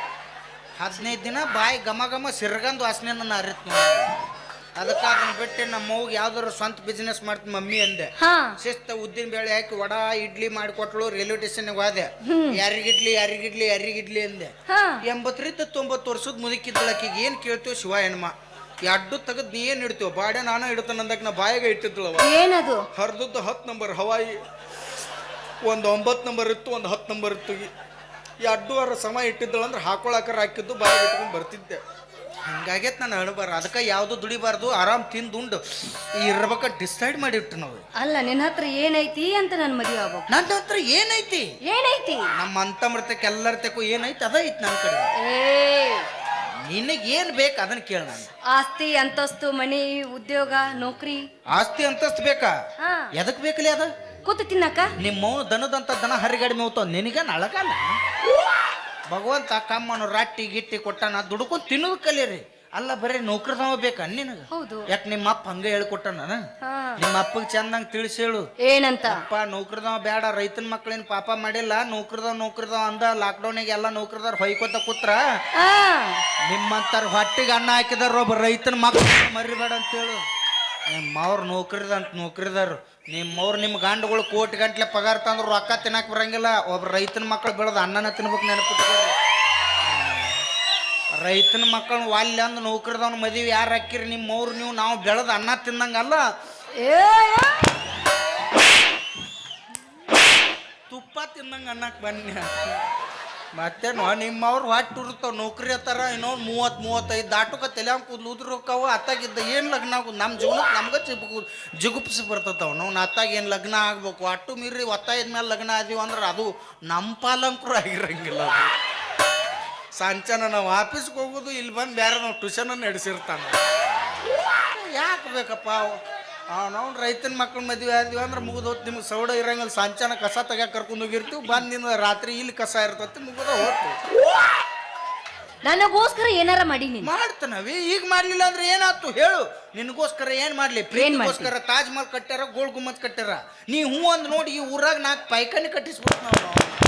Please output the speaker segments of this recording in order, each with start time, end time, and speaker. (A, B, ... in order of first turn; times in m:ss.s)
0:00.8-0:14.5 A
0:08.2-0:08.6 B
0:12.3-0:12.6 B
0:14.7-0:15.0 B
0:15.1-0:18.3 A
0:18.8-0:22.3 A
0:22.2-0:22.8 B
0:22.9-0:24.4 A
0:25.6-0:27.7 A
0:28.4-0:31.8 A
0:32.4-0:37.8 A
0:38.0-0:40.3 B
0:40.3-0:41.5 A
0:41.6-0:42.3 B
0:42.3-0:45.1 A
0:45.2-0:46.1 B
0:46.7-0:48.3 A
0:48.5-0:51.2 B
0:51.5-0:52.5 A
0:52.8-0:53.1 B
0:53.2-0:53.9 A
0:54.2-0:54.9 B
0:55.0-0:57.8 A
0:59.1-1:06.4 A
1:04.5-1:04.9 B
1:06.6-1:07.0 B
1:07.0-1:08.5 A
1:08.6-1:09.2 B
1:09.0-1:15.2 A
1:15.6-1:16.2 B
1:16.5-1:20.2 A
1:20.9-1:29.1 A
1:29.8-1:30.4 A
1:31.1-1:36.2 A
1:36.8-1:37.7 B
1:40.9-1:42.5 A
1:43.6-1:58.7 A
2:00.0-2:03.6 A
2:04.6-2:06.0 A
2:06.5-2:14.0 A
2:15.6-2:17.1 B
2:17.0-2:26.7 A
2:20.9-2:21.5 B